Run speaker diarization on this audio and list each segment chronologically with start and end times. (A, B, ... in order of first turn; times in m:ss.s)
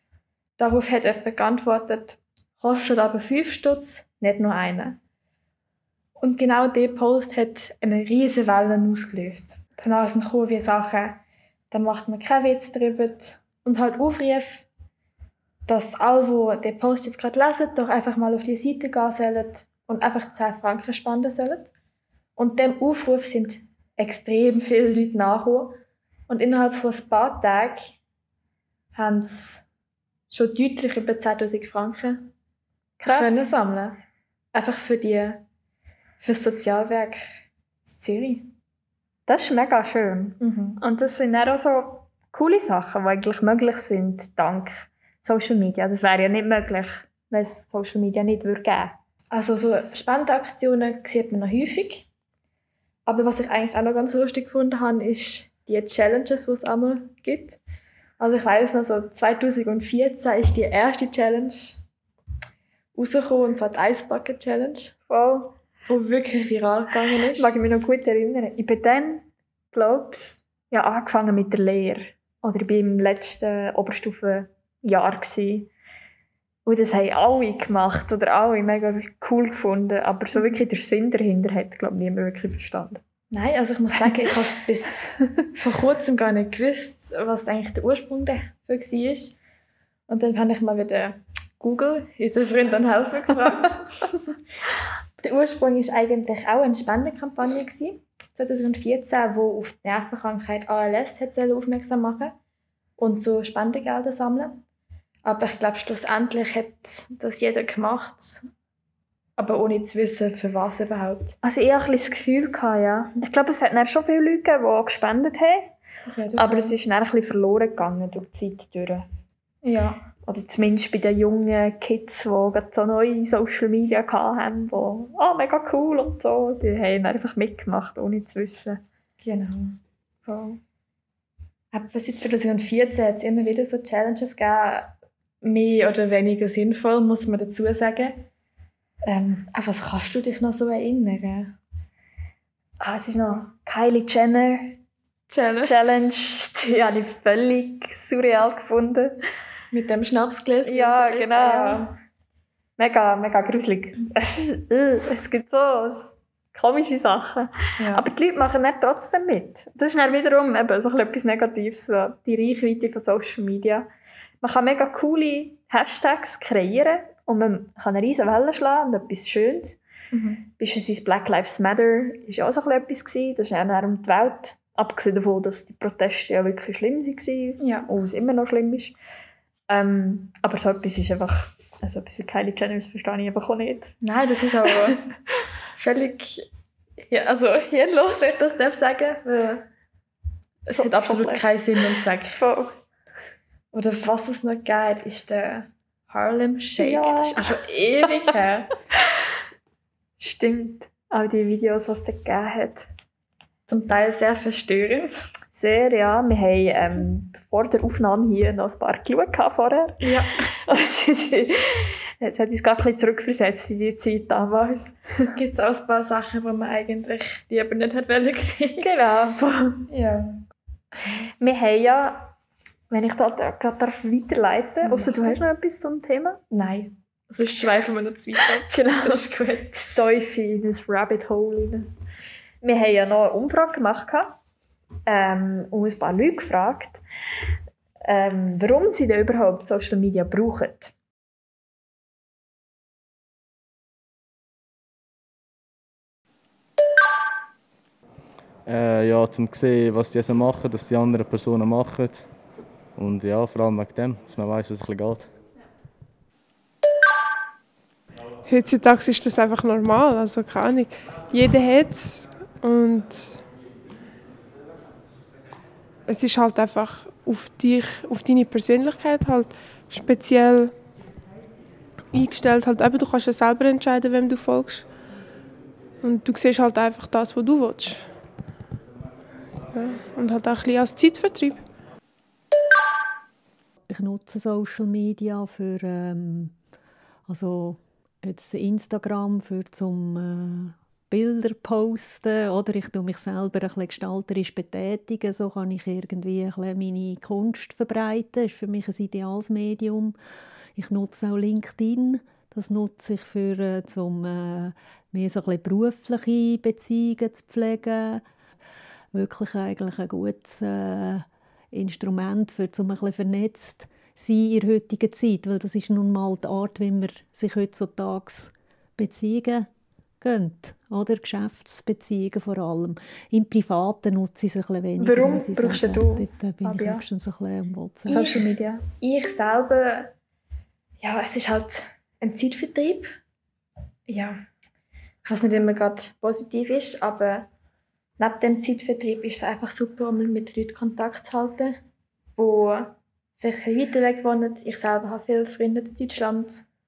0:00.6-0:05.0 A
0:06.2-0:14.7 A
0:15.7-0:21.7 A
0:22.4-0:28.0 A
0:28.9-0:29.7 A
0:30.3-0:32.3 A
0:33.0-0:33.5 B
0:33.0-0:34.0 A
0:34.5-0:35.4 A
0:36.2-0:38.5 A
0:39.3-0:49.0 B
0:40.4-0:40.8 A
0:49.3-0:52.1 A
0:53.1-0:57.6 A
0:58.2-1:01.8 A
1:03.0-1:05.0 A
1:05.1-1:05.6 B
1:05.9-1:07.5 A
1:07.4-1:15.7 B
1:16.7-1:23.0 B
1:23.3-1:29.4 A
1:30.1-1:34.3 A
1:35.2-1:42.4 A
1:43.0-1:44.6 A
1:45.2-1:48.5 A
1:49.4-1:51.4 A
1:51.4-1:55.7 B
1:56.1-1:56.8 A
1:56.4-1:59.1 B
1:59.6-2:00.1 A
2:00.2-2:08.8 B
2:09.2-2:09.8 A
2:10.3-2:10.6 B
2:11.7-2:18.3 A
2:19.0-2:21.6 A
2:22.8-2:24.8 B
2:25.3-2:26.1 A
2:25.6-2:29.2 B
2:29.7-2:32.0 A
2:30.6-2:31.9 B
2:32.8-2:43.9 B
2:37.8-2:38.1 A
2:44.4-2:49.8 B
2:50.1-2:50.5 A
2:50.6-2:59.0 B
2:57.6-2:57.9 A
2:59.7-3:04.0 B
3:04.0-3:05.0 A
3:05.8-3:06.5 A
3:07.1-3:09.6 A
3:10.7-3:12.4 A
3:10.7-3:11.5 B
3:12.3-3:12.8 B
3:13.7-3:18.8 A
3:16.8-3:17.5 B
3:20.2-3:22.9 B
3:23.7-3:25.2 A
3:25.5-3:35.4 B
3:30.0-3:30.6 A
3:35.3-3:38.9 A
3:38.8-3:39.9 B
3:39.9-3:40.4 A
3:41.4-3:42.3 B
3:42.9-3:46.4 B
3:44.8-3:45.4 A
3:46.5-3:49.9 A
3:48.7-3:51.9 B
3:52.6-3:54.4 B
3:55.1-3:57.0 B
3:58.0-4:00.9 B
4:08.7-4:12.3 C
4:13.0-4:15.3 C
4:18.4-4:23.5 D
4:26.1-4:30.8 D
4:32.1-4:34.9 D
4:36.0-4:38.2 D
4:39.7-4:41.7 D
4:43.9-4:46.6 E
4:47.3-5:00.2 E
5:00.8-5:08.2 E
5:09.1-5:19.7 E
5:20.2-5:28.3 E
5:25.0-5:27.0 B
5:28.1-5:28.8 B
5:28.1-5:28.4 A
5:29.0-5:30.1 A
5:31.0-5:33.2 A
5:34.1-5:34.5 A
5:35.2-5:37.5 A
5:38.2-5:41.8 A
5:42.4-5:46.7 A